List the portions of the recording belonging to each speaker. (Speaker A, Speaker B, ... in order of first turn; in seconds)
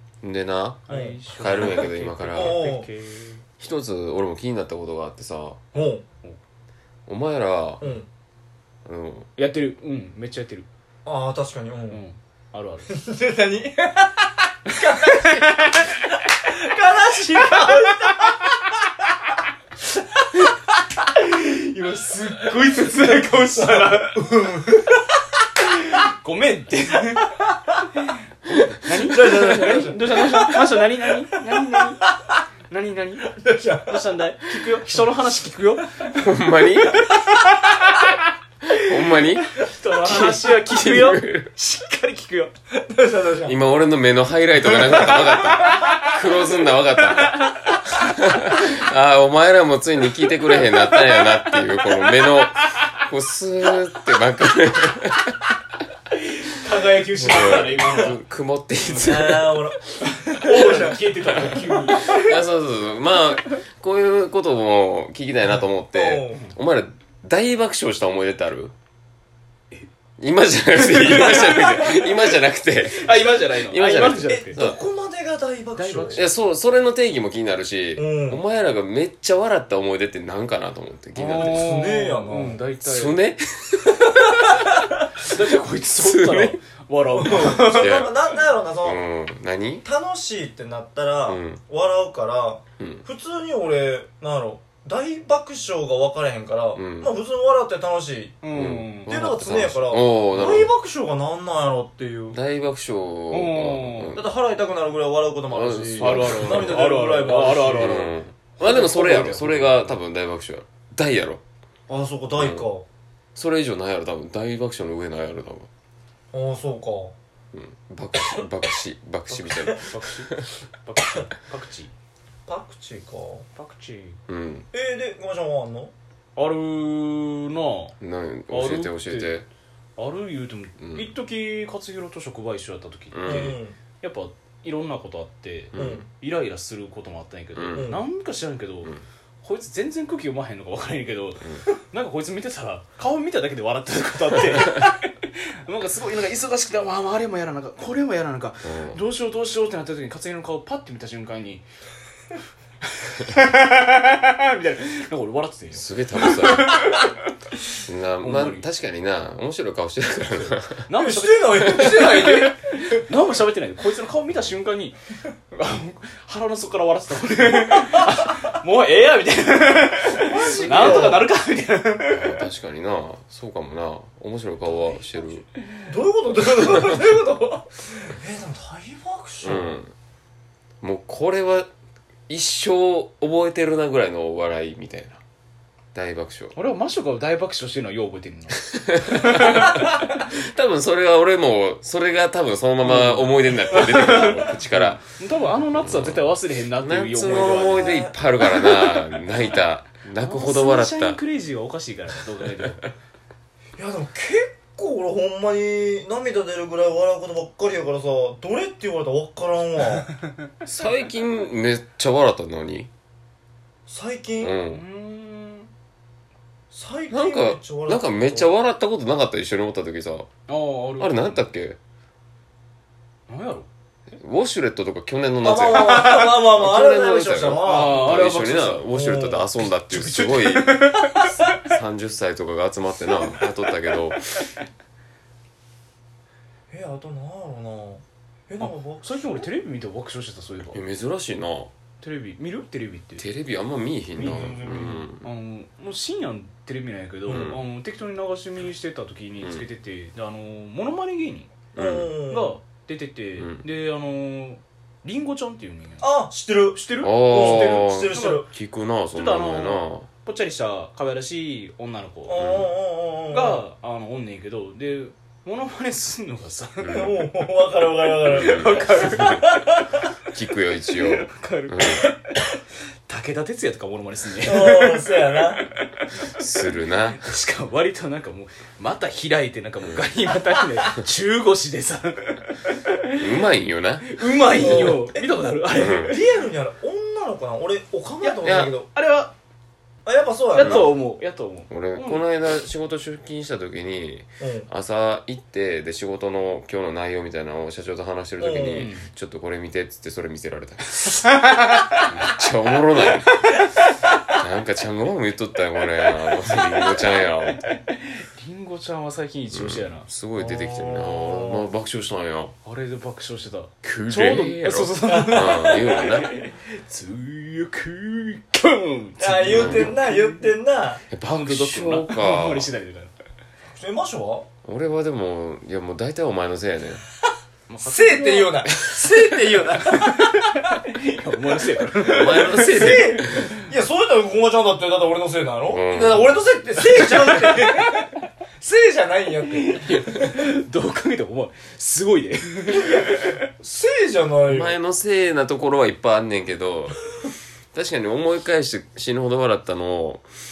Speaker A: 0.2-2.6, 3.6-5.6, 7.1-7.8, 8.8-9.3, 36.1-37.1, 38.7-41.5, 43.5-55.5, 57.3-59.6, 61.3-68.7, 70.2-74.8, 76.1-81.7, 82.8-84.7, 86.0-86.6, 87.4-88.1, 88.8-89.8, 91.3-91.6, 92.8-93.0, 96.8-97.1, 98.5-100.7, 102.3-104.3, 105.5-106.8, 107.7-111.4, 112.4-112.7, 113.3-115.7, 117.5-120.5, 124.3-124.7, 128.0-129.5, 130.8-131.1, 133.1-133.6, 135.7-136.1, 137.6-138.0, 148.6-149.0, 155.7-156.8, 157.9-160.9, 161.6-162.1, 170.5-171.2, 172.0-175.4, 179.4-179.9, 180.8-181.7, 182.3-185.2, 185.9-186.6, 189.0-195.1, 195.6-201.2, 210.7-212.9, 214.4-214.8, 217.1-220.3, 221.0-221.8, 224.1-234.4, 240.7-241.7, 243.2-245.3, 247.3-247.6, 251.8-252.2, 253.4-253.7, 257.0-260.1, 262.4-262.7, 266.8-267.2, 268.3-268.7, 270.3-272.1, 276.4-277.2, 283.2-285.0, 285.8-286.1, 288.4-288.7, 290.6-290.9, 291.7-301.2, 302.1-303.5, 304.3-307.7, 309.5-312.6, 313.8-316.4, 319.5-320.0, 321.1-322.7, 324.6-327.0, 332.0-333.5, 335.7-336.4, 344.5-347.0, 347.7-350.2
Speaker B: 0.9-3.4, 9.4-10.7, 11.9-12.9, 15.1-15.8, 21.1-24.2, 25.7-27.3, 28.5-32.1, 32.7-35.9, 39.5-42.5, 45.9-46.1, 52.1-52.5, 56.1-58.2, 60.0-62.4, 70.8-74.6, 75.8-76.3, 81.2-83.2, 85.2-88.1, 98.4-99.1, 103.3-104.2, 106.0-110.0, 119.3-120.3, 120.8-121.9, 123.6-124.2, 126.4-128.0, 128.5-129.3, 130.0-151.6, 152.9-157.1, 158.2-158.7, 160.3-165.0, 165.5-172.4, 174.7-175.2, 186.5-189.9, 192.8-199.1, 200.2-202.9, 214.7-215.7, 220.5-221.5, 223.3-223.7, 227.6-228.9, 229.6-231.6, 233.2-233.5, 238.6-240.8, 242.0-243.3, 244.2-251.5, 252.3-256.1, 256.7-258.5, 259.1-262.4, 263.3-267.1, 268.1-269.6, 270.9-272.2, 273.1-283.3, 284.0-286.3, 288.2-289.3, 290.5-292.3, 298.7-299.1, 301.1-302.1, 306.6-307.0, 307.6-310.1, 312.6-320.4, 321.2-323.1, 327.7-328.7, 329.9-333.5, 336.9-337.8, 339.6-343.4
Speaker C: 0.9-1.2, 2.3-2.9, 5.7-6.0, 7.8-8.1, 11.1-12.0, 12.9-18.5, 22.7-25.1, 27.2-27.9, 28.9-30.7, 31.3-32.0, 33.3-34.8, 42.8-43.6, 57.0-57.6, 58.9-61.0, 65.9-66.4, 74.3-76.3, 78.0-78.4, 81.4-82.6, 84.1-85.1, 87.1-89.0, 89.8-98.4, 99.1-102.4, 104.1-108.0, 111.9-112.8, 116.3-117.1, 122.5-123.5, 124.7-125.9, 133.2-133.8, 135.8-136.0, 137.8-138.0, 160.9-163.0, 170.1-171.3, 175.9-179.8, 197.2-198.6, 203.8-210.1, 213.9-214.6, 216.7-218.5, 225.4-228.1, 228.9-229.5, 236.7-239.5, 244.2-245.1, 247.3-247.5, 251.8-252.6, 256.0-258.5, 262.3-263.6, 266.9-270.0, 274.4-275.7, 284.6-285.1, 286.0-288.9, 290.1-290.9, 294.4-294.7, 298.4-298.9, 310.4-311.7, 315.1-316.1, 319.2-321.0, 323.7-324.5, 327.8-330.8, 332.3-340.4, 342.7-344.8